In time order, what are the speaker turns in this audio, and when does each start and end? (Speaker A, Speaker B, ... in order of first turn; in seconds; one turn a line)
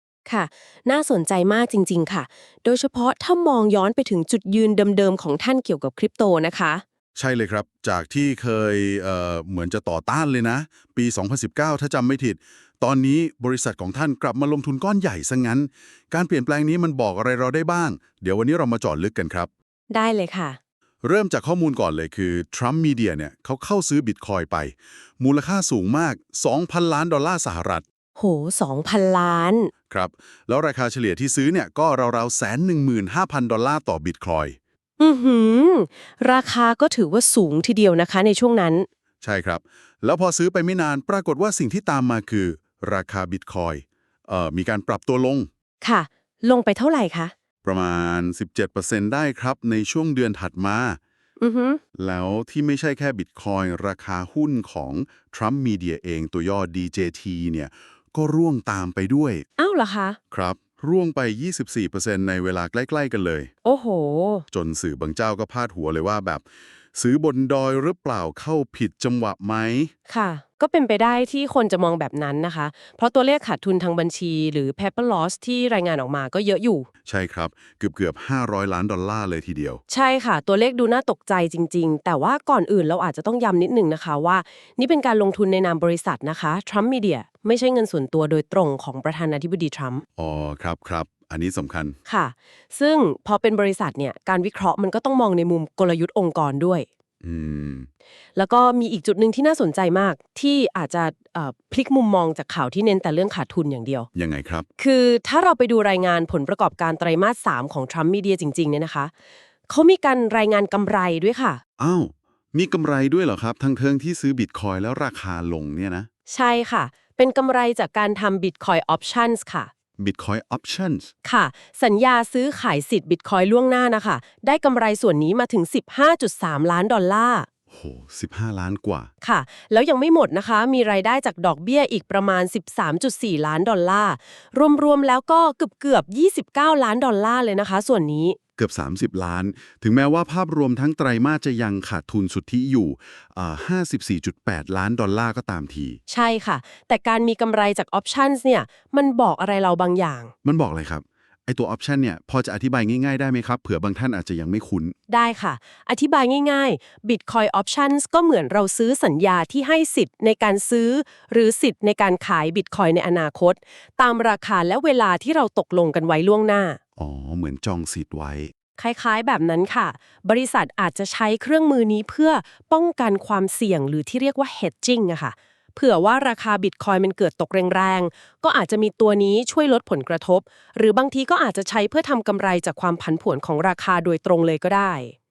Speaker A: 0.2-6.8
Speaker B: 7.2-19.5
Speaker A: 19.9-20.6
Speaker B: 21.0-27.8
Speaker A: 28.2-29.7
Speaker B: 29.9-34.6
Speaker A: 35.0-38.9
Speaker B: 39.2-45.5
Speaker A: 45.8-47.3
Speaker B: 47.6-51.0
Speaker A: 51.4-51.8
Speaker B: 51.9-59.4
Speaker A: 59.6-60.2
Speaker B: 60.3-63.5
Speaker A: 63.6-64.4
Speaker B: 64.5-66.4
Speaker B: 66.9-69.9
Speaker A: 70.1-76.9
Speaker B: 77.0-79.8
Speaker A: 79.9-90.0
Speaker B: 90.2-92.0
Speaker A: 92.1-96.9
Speaker B: 97.2-97.9
Speaker A: 98.3-104.1
Speaker B: 104.1-104.7
Speaker A: 104.8-109.1
Speaker A: 109.7-111.6
Speaker B: 111.8-116.1
Speaker A: 116.3-119.7
Speaker B: 120.0-121.1
Speaker A: 121.2-127.5
Speaker B: 127.7-129.1
Speaker A: 129.2-138.4
Speaker B: 138.6-146.0
Speaker A: 146.1-150.3
Speaker B: 150.4-154.9
Speaker A: 155.1-166.8
Speaker B: 167.0-168.5
Speaker A: 168.8-185.1